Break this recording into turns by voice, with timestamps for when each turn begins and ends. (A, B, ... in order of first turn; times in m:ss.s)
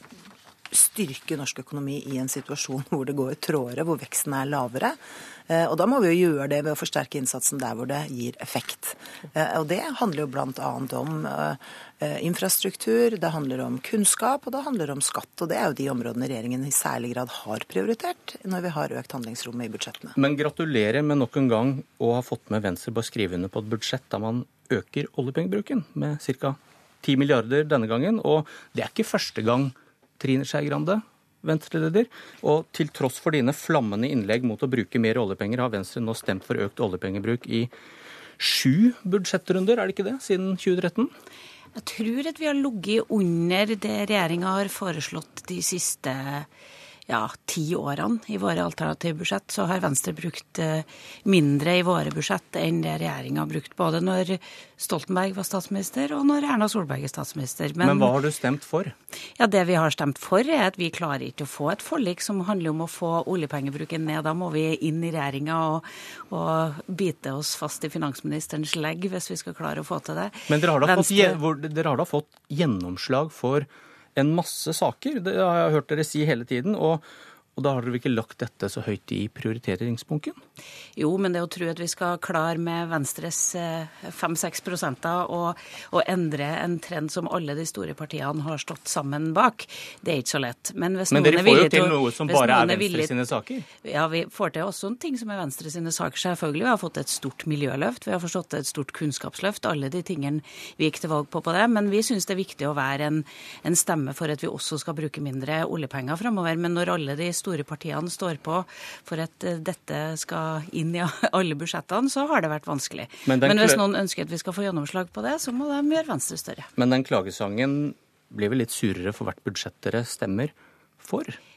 0:00.7-0:05.0 A
0:05.5-0:20.1 A
0:20.2-0:37.7 B
0:38.4-0:41.1 B
0:41.7-0:46.5 C
0:47.1-0:58.1 C
0:57.8-0:58.9 B
0:59.4-1:11.4 C
1:10.5-1:17.0 B
1:17.6-1:20.4 B
1:21.0-1:33.2 C
1:31.1-1:33.6 B
1:33.8-1:56.7 C
1:53.2-1:53.8 B
1:56.8-2:01.4 B